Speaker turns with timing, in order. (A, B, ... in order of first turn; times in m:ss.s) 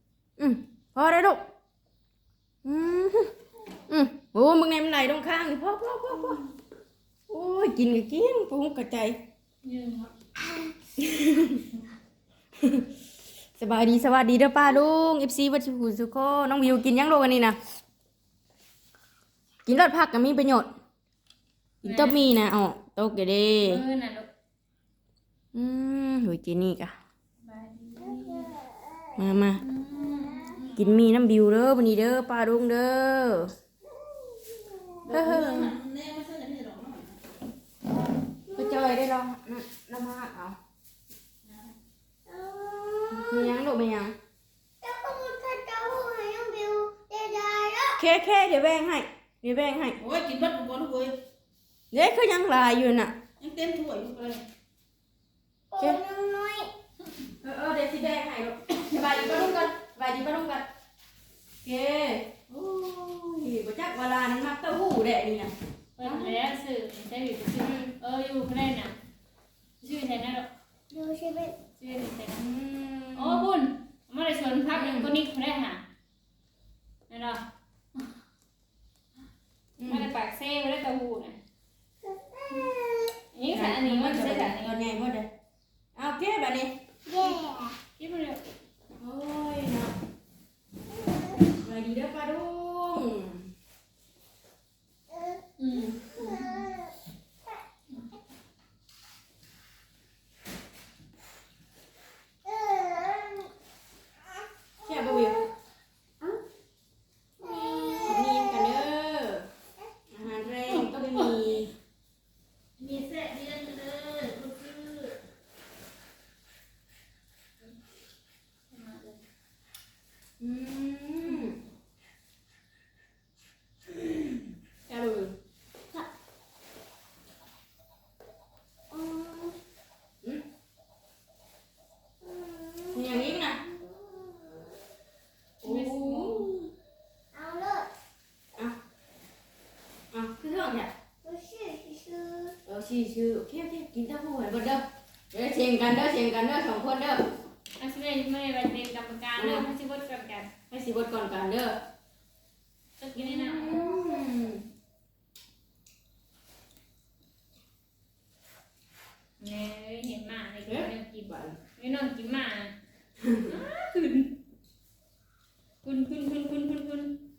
0:00.4-0:01.4 A
0:02.6-0:03.3 A
0:03.9-0:06.4 A
0:07.3-0:09.2 A
0:09.6-0:10.1 B
0:11.0-0:11.6 A
0:12.6-0:12.9 A
0:13.6-0:17.6 A
0:19.6-0:20.7 A
0:21.8-0:23.8 A
0:21.8-0:22.2 B
0:23.6-0:24.3 B
0:25.5-0:27.0 A
0:27.4-0:28.5 B
0:29.2-0:29.6 A
0:29.6-0:31.0 B
0:30.8-0:33.5 A
0:34.2-0:34.9 C
0:35.1-0:37.2 D
0:35.1-0:35.8 A
0:38.6-0:40.6 A
0:42.3-0:43.6 C
0:43.1-0:44.2 A
0:44.8-0:48.0 C
0:48.0-0:50.0 A
0:50.0-0:51.1 D
0:51.9-0:53.2 A
0:53.4-0:54.4 D
0:55.7-0:56.7 C
0:57.4-1:00.7 A
1:01.6-1:06.4 A
1:06.0-1:08.9 B
1:07.6-1:07.9 A
1:09.8-1:10.5 B
1:10.9-1:11.6 C
1:11.8-1:12.4 B
1:12.4-1:13.4 A
1:13.2-1:15.8 B
1:14.8-1:15.1 A
1:17.1-1:17.4 B
1:19.8-1:20.1 A
1:19.9-1:21.4 B
1:22.4-1:22.9 C
1:23.3-1:24.8 B
1:23.5-1:25.3 A
1:26.0-1:26.8 A
1:27.1-1:27.4 B
1:27.1-1:27.8 C
1:28.0-1:28.4 B
1:29.0-1:29.9 A
1:31.6-1:33.5 A
1:35.6-1:36.7 B
1:36.2-1:36.7 C
1:42.4-1:43.5 C
1:44.8-1:45.4 A
1:44.9-1:45.3 C
1:47.4-1:48.4 C
1:48.0-1:49.5 A
1:50.1-1:51.7 A
1:52.8-1:55.2 D
1:58.7-1:59.2 B
2:00.4-2:01.6 A
2:04.9-2:05.4 A
2:08.9-2:09.6 C
2:12.2-2:14.8 C
2:12.9-2:13.6 A
2:15.6-2:16.5 B
2:15.6-2:16.7 A
2:17.3-2:17.9 C
2:20.1-2:20.9 A
2:21.2-2:22.6 C
2:22.7-2:27.2 A
2:27.8-2:30.5 B
2:29.4-2:29.7 A
2:30.7-2:31.8 A
2:33.0-2:33.8 B
2:33.2-2:34.6 A
2:39.4-2:42.7 B
2:40.7-2:41.6 A
2:43.2-2:43.5 A
2:43.4-2:44.3 B
2:45.8-2:47.2 B